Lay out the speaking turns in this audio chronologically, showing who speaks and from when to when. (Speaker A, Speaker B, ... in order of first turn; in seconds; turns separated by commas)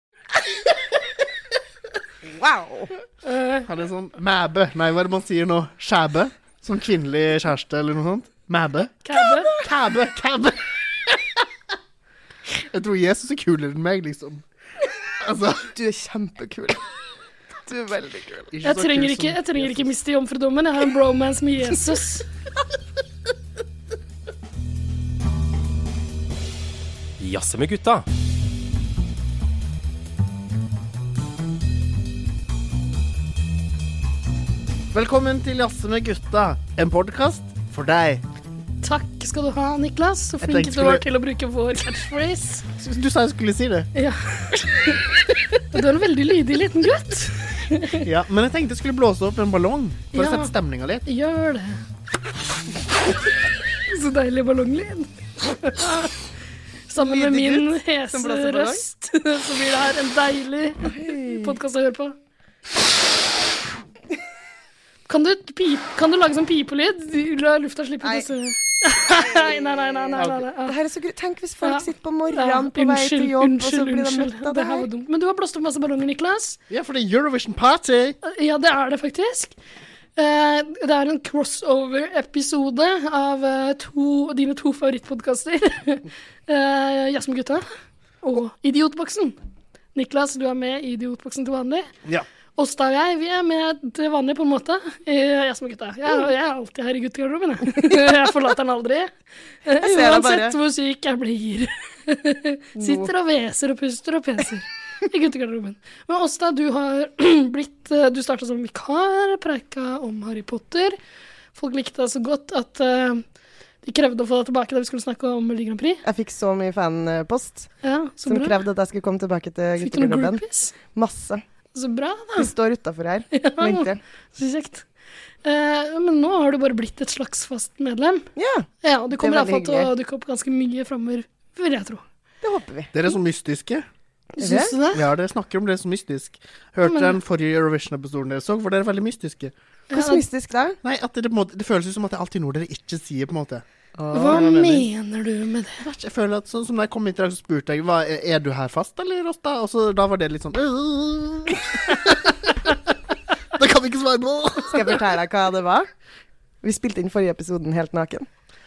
Speaker A: 2.2-2.9, Speaker B: 3.2-3.6, Speaker C: 3.6-11.2, Speaker B: 9.0-9.6, Speaker C: 12.5-14.4, Speaker C: 15.2-15.7, Speaker A: 15.7-16.8, Speaker A: 17.6-18.5, Speaker C: 18.5-19.9, Speaker B: 18.6-22.2, Speaker C: 34.9-38.2, Speaker B: 38.8-42.6, Speaker C: 40.4-41.0, Speaker C: 42.8-43.9, Speaker B: 43.9-45.1, Speaker B: 45.7-48.0, Speaker C: 48.0-51.0, Speaker B: 50.1-50.5, Speaker B: 51.0-51.8, Speaker B: 53.9-56.1, Speaker B: 56.9-62.1, Speaker A: 56.9-58.8, Speaker A: 60.8-61.5, Speaker B: 65.1-70.8, Speaker A: 68.0-68.3, Speaker A: 69.0-74.9, Speaker C: 70.2-70.4, Speaker B: 71.6-76.6, Speaker C: 76.7-78.2, Speaker B: 78.2-79.5, Speaker B: 80.2-89.4, Speaker B: 89.9-91.9, Speaker B: 92.6-99.1, Speaker B: 99.6-111.0, Speaker A: 99.8-100.6, Speaker A: 102.8-103.1, Speaker B: 111.5-113.2, Speaker B: 113.8-116.0, Speaker A: 116.0-117.7, Speaker B: 117.8-118.6, Speaker A: 118.2-121.4, Speaker B: 119.8-120.7, Speaker B: 121.7-122.5, Speaker A: 122.4-124.0, Speaker B: 123.3-124.8, Speaker B: 125.4-128.2, Speaker A: 128.3-129.9, Speaker B: 128.8-132.0, Speaker A: 132.4-132.9, Speaker C: 132.9-133.8, Speaker B: 134.4-135.0, Speaker A: 134.4-134.8, Speaker C: 134.9-139.5, Speaker B: 136.8-137.1, Speaker B: 139.9-140.2, Speaker A: 139.9-140.8, Speaker C: 140.8-143.6, Speaker A: 144.0-144.5, Speaker B: 144.1-145.8, Speaker C: 144.2-144.8, Speaker C: 145.8-152.7, Speaker C: 153.5-155.0, Speaker A: 154.7-155.9, Speaker A: 156.6-158.3